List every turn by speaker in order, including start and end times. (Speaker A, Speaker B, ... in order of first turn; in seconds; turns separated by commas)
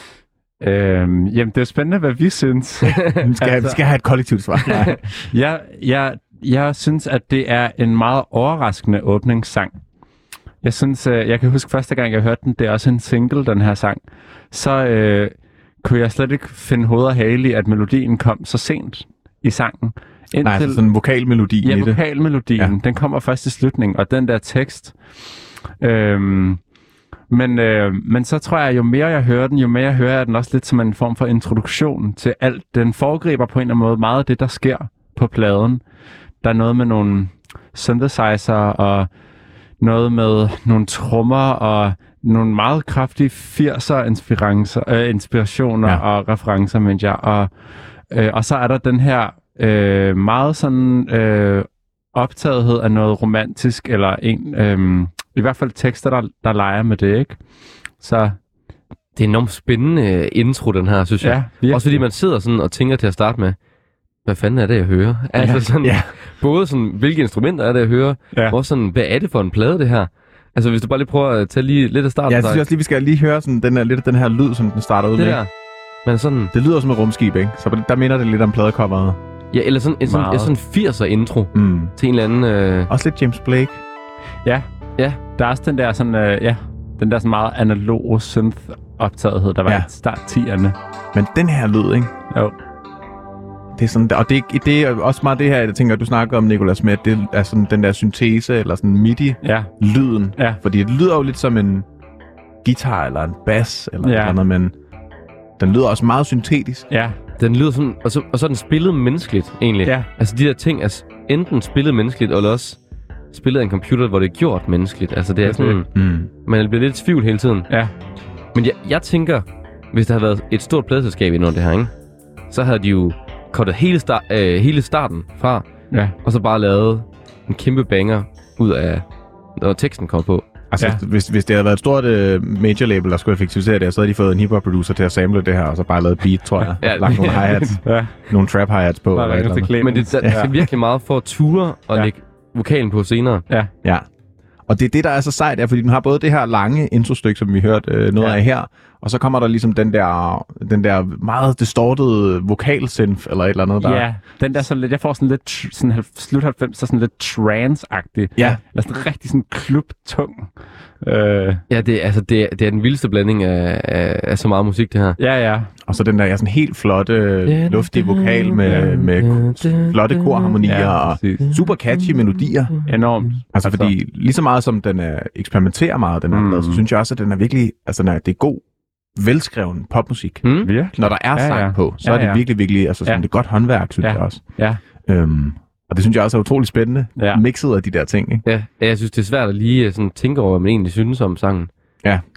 Speaker A: 0.6-3.8, Speaker B: 3.2-5.3, Speaker A: 5.3-9.8, Speaker A: 10.6-20.8, Speaker B: 20.4-22.0, Speaker A: 21.6-25.0, Speaker A: 25.8-26.6, Speaker A: 27.3-35.8, Speaker A: 36.4-39.1, Speaker A: 39.8-47.5, Speaker A: 48.1-57.4, Speaker A: 58.0-58.4, Speaker C: 59.1-63.6, Speaker A: 61.2-62.0, Speaker C: 64.2-72.7, Speaker A: 65.4-65.7, Speaker B: 65.8-66.1, Speaker B: 72.3-75.4, Speaker C: 75.2-75.5, Speaker C: 76.0-76.5, Speaker B: 76.5-79.2, Speaker C: 79.5-82.9, Speaker A: 80.0-80.5, Speaker B: 81.5-81.9, Speaker B: 82.9-83.8, Speaker A: 85.3-90.8, Speaker B: 91.1-92.1, Speaker B: 93.7-101.9, Speaker A: 99.4-99.7, Speaker B: 102.6-104.8, Speaker A: 104.0-104.4, Speaker B: 105.6-106.9, Speaker A: 106.9-107.2, Speaker C: 107.4-112.8, Speaker C: 113.3-117.7, Speaker A: 115.4-115.8, Speaker B: 115.9-116.3, Speaker C: 118.5-121.9, Speaker C: 122.5-130.5, Speaker B: 130.7-140.5, Speaker C: 136.8-137.8, Speaker A: 137.8-138.3, Speaker A: 139.2-140.6, Speaker C: 139.8-143.5, Speaker B: 144.7-154.1, Speaker A: 153.8-161.6, Speaker B: 158.4-158.6, Speaker C: 161.7-165.2, Speaker A: 165.2-165.7, Speaker B: 165.8-172.8, Speaker C: 167.5-170.7, Speaker A: 170.6-171.5, Speaker C: 171.4-173.3, Speaker A: 172.9-173.9, Speaker B: 173.5-188.4, Speaker A: 176.3-176.8, Speaker C: 180.4-180.7, Speaker A: 180.6-184.8, Speaker A: 187.2-187.4, Speaker C: 188.4-191.7